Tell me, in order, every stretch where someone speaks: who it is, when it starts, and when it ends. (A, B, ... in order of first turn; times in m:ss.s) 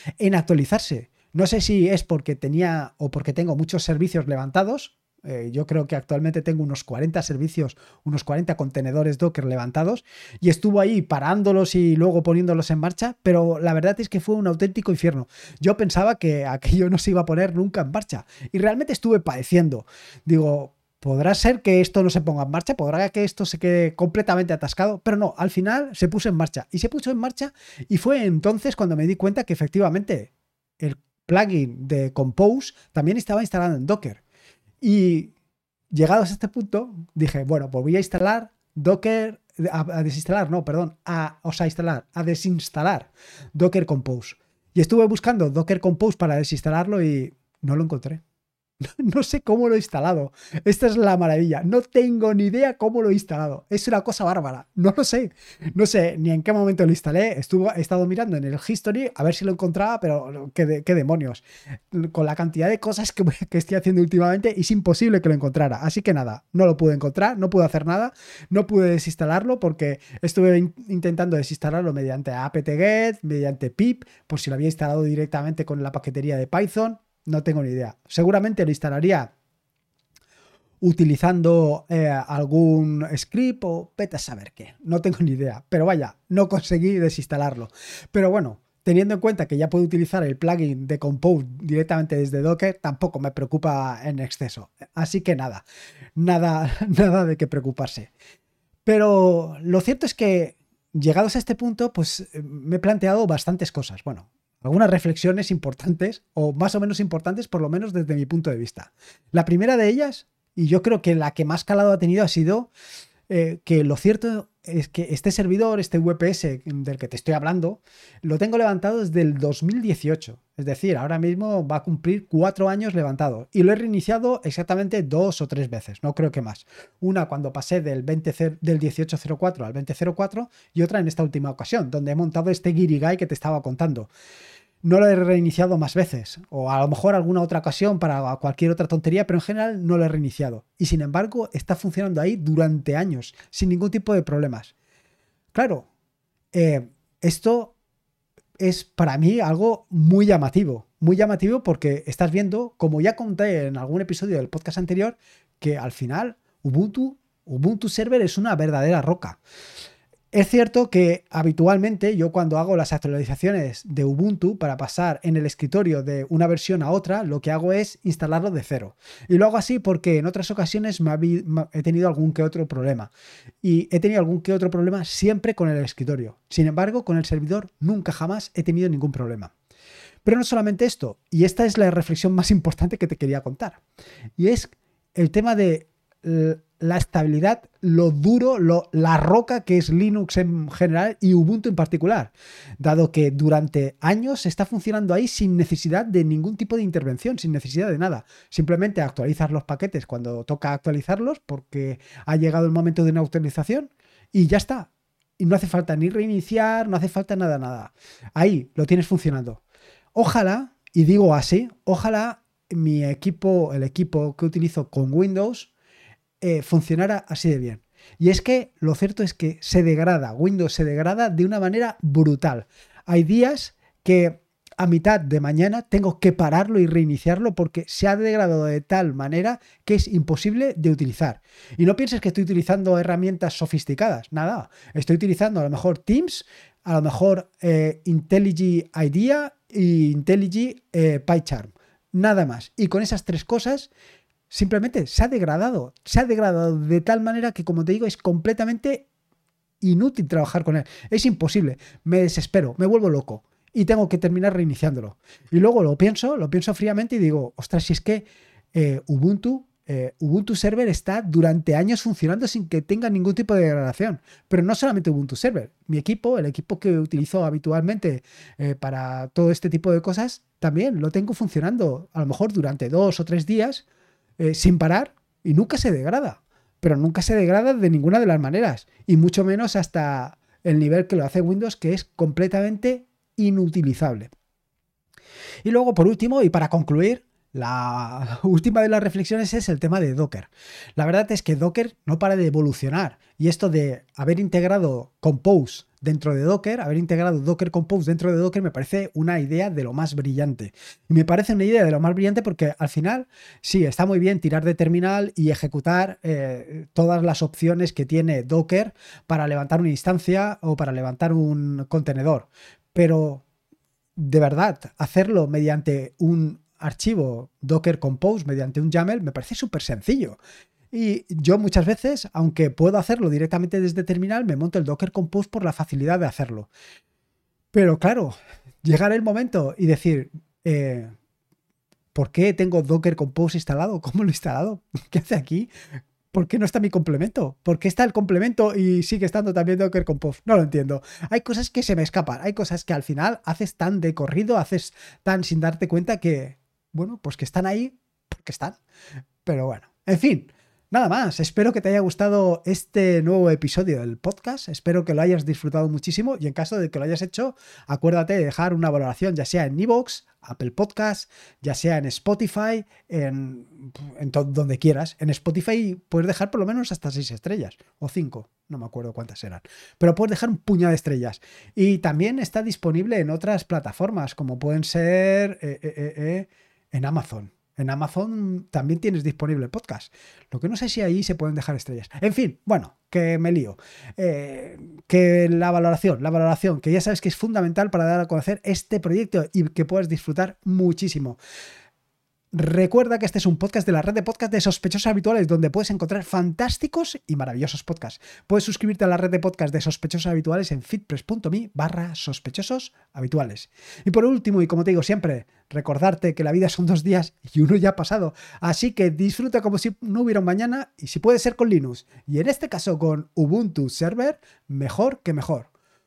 0:00.2-0:34.2 A
0:34.8-0:35.3 A
0:35.9-0:48.2 A
0:48.8-1:19.3 A
1:20.8-1:35.6 A
1:36.2-1:38.1 A
1:38.9-1:52.7 A
1:53.3-2:14.1 A
2:14.8-2:24.7 A
2:25.5-2:25.9 A
2:26.5-2:27.8 A
2:28.6-2:39.4 A
2:40.3-2:53.1 A
2:53.6-2:59.5 A
3:00.2-3:03.8 A
3:04.4-3:29.6 A
3:30.2-3:35.7 A
3:36.4-4:03.9 A
4:04.5-4:09.1 A
4:09.8-4:33.8 A
4:34.4-4:44.3 A
4:45.6-5:13.4 A
5:14.2-5:20.4 A
5:20.9-5:26.7 A
5:27.7-5:31.1 A
5:32.1-5:35.7 A
5:36.3-5:48.8 A
5:49.4-6:31.4 A
6:32.5-6:55.7 A